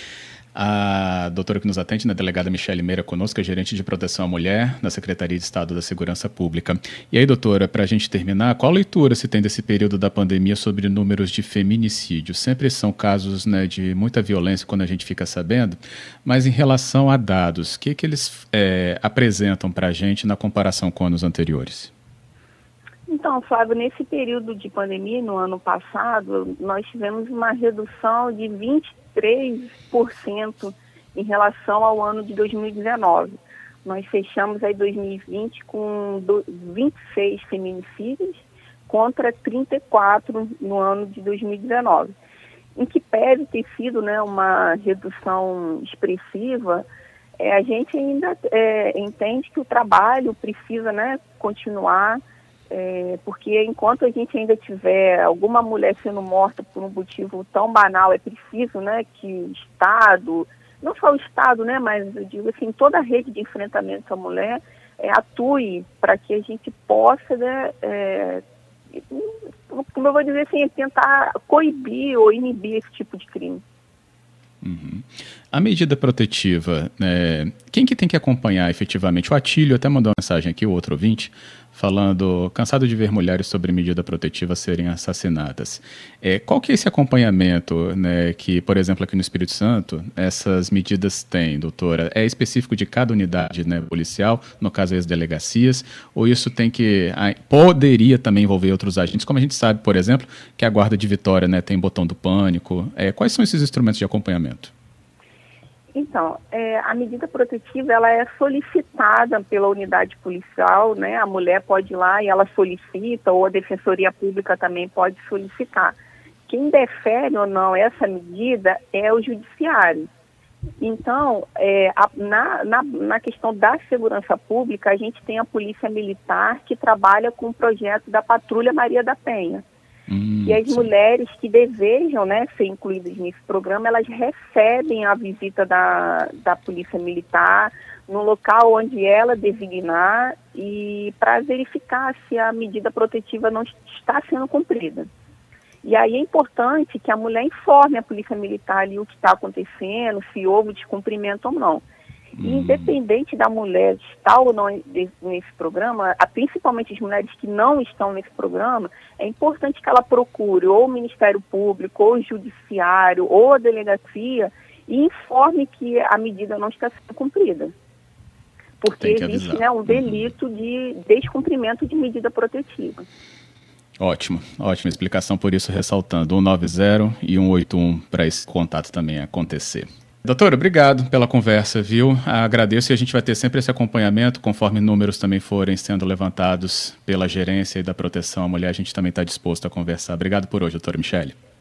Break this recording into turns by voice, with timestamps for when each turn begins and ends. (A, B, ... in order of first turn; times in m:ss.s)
0:00.5-0:21.9 A
0:23.1-0:42.1 B
0:42.8-0:46.8 B
0:47.4-1:13.6 B
1:14.6-1:44.7 A
1:45.9-1:56.0 B
1:56.5-2:00.1 B
2:00.8-2:09.6 B
2:10.1-2:10.9 A
2:10.4-2:25.1 B
2:25.8-2:31.8 B
2:32.4-2:32.9 A
2:32.4-2:47.7 B
2:48.8-2:53.0 B
2:49.0-2:50.3 A
2:54.0-3:11.4 A